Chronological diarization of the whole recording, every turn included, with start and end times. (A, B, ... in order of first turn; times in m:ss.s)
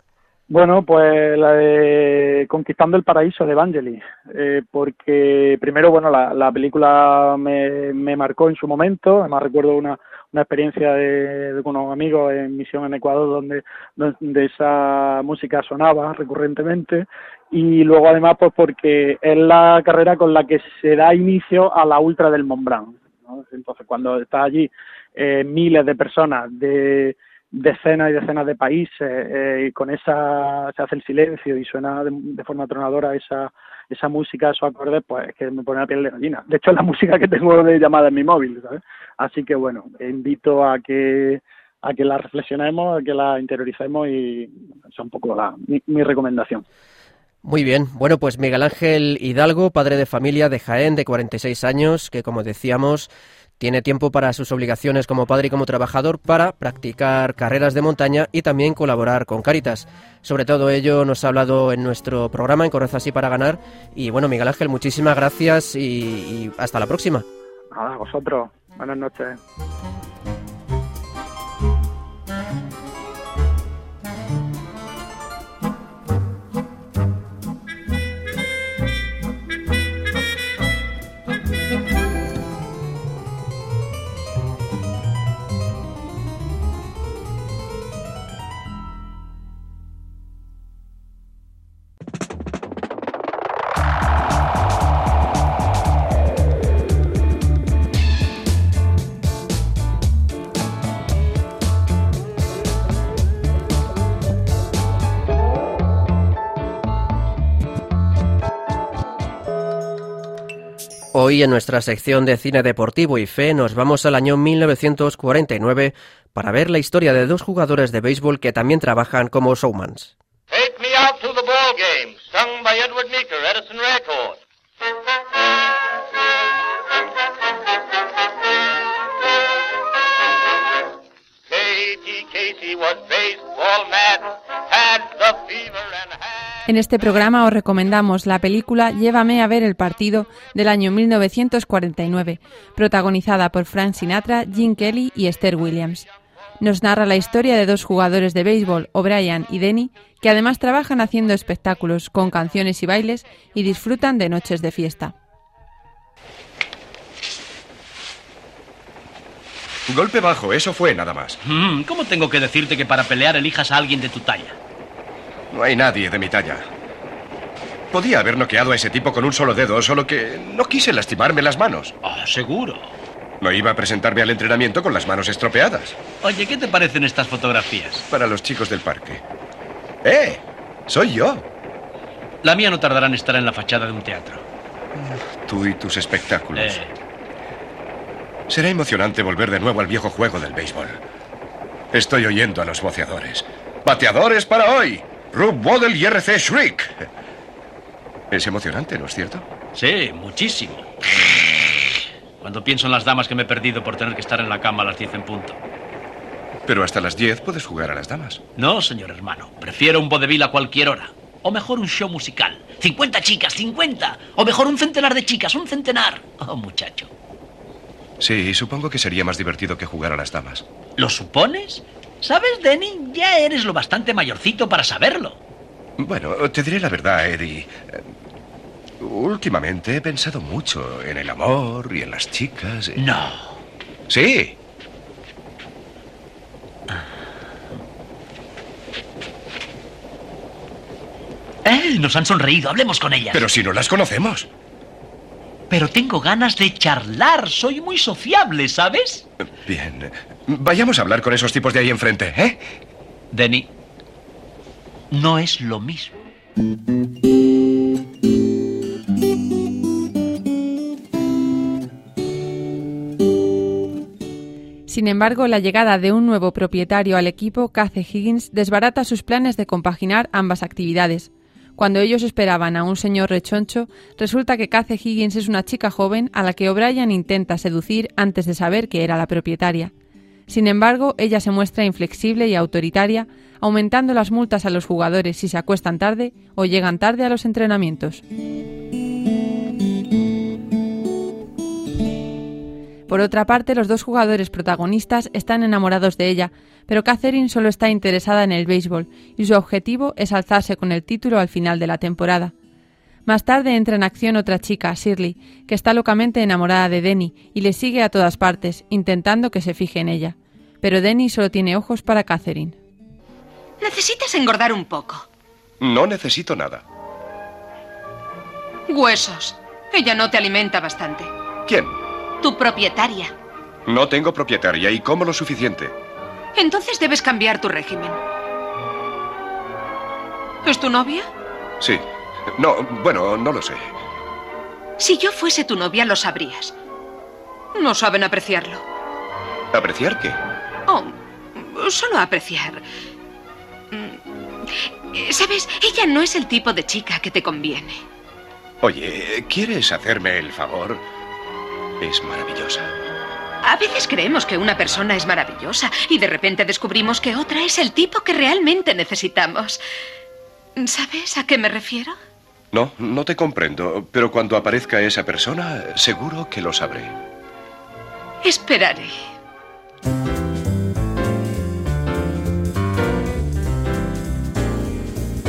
0:00.5-0:46.6 A
0:47.4-1:07.2 B
1:07.7-1:09.4 A
1:51.1-2:00.1 B
2:00.5-2:04.4 C
2:11.5-2:16.1 C
2:16.7-2:26.1 D
2:26.6-2:35.1 D
2:39.9-2:41.4 E
2:41.4-2:44.6 F
2:45.5-2:46.6 E
2:47.9-2:51.9 E
2:52.0-2:52.9 F
2:53.4-2:56.0 E
2:56.2-2:58.0 F
2:58.1-2:59.2 E
3:00.0-3:01.4 E
3:02.4-3:04.4 F
3:05.0-3:06.8 E
3:06.5-3:06.9 F
3:08.5-3:11.0 E
3:11.9-3:17.0 E
3:18.3-3:19.4 E
3:19.7-3:21.4 F
3:22.4-3:25.6 F
3:26.6-3:28.4 E
3:28.6-3:37.1 F
3:38.2-3:40.6 E
3:41.0-3:45.4 F
3:46.0-3:48.1 E
3:49.0-3:53.0 E
3:53.0-3:53.4 F
3:54.1-3:54.6 E
4:01.6-4:03.4 F
4:03.3-4:04.5 E
4:05.7-4:09.2 F
4:09.6-4:12.6 E
4:13.3-4:13.7 F
4:15.1-4:16.1 F
4:24.9-4:39.9 D
4:40.5-4:48.2 D
4:53.1-5:02.5 D
5:03.2-5:12.8 D
5:13.8-5:15.2 G
5:15.8-5:16.8 E
5:18.9-5:21.3 G
5:21.6-5:21.9 E
5:22.4-5:23.3 G
5:23.9-5:25.9 E
5:26.5-5:28.2 G
5:30.6-5:31.3 G
5:31.8-5:33.9 E
5:35.0-5:36.8 G
5:37.7-5:38.8 G
5:39.7-5:40.4 E
5:40.9-5:42.8 G
5:43.9-5:48.0 G
5:48.8-5:51.0 E
5:52.0-5:52.9 E
5:53.6-5:59.8 G
6:00.8-6:02.2 G
6:02.7-6:07.1 E
6:08.4-6:09.1 G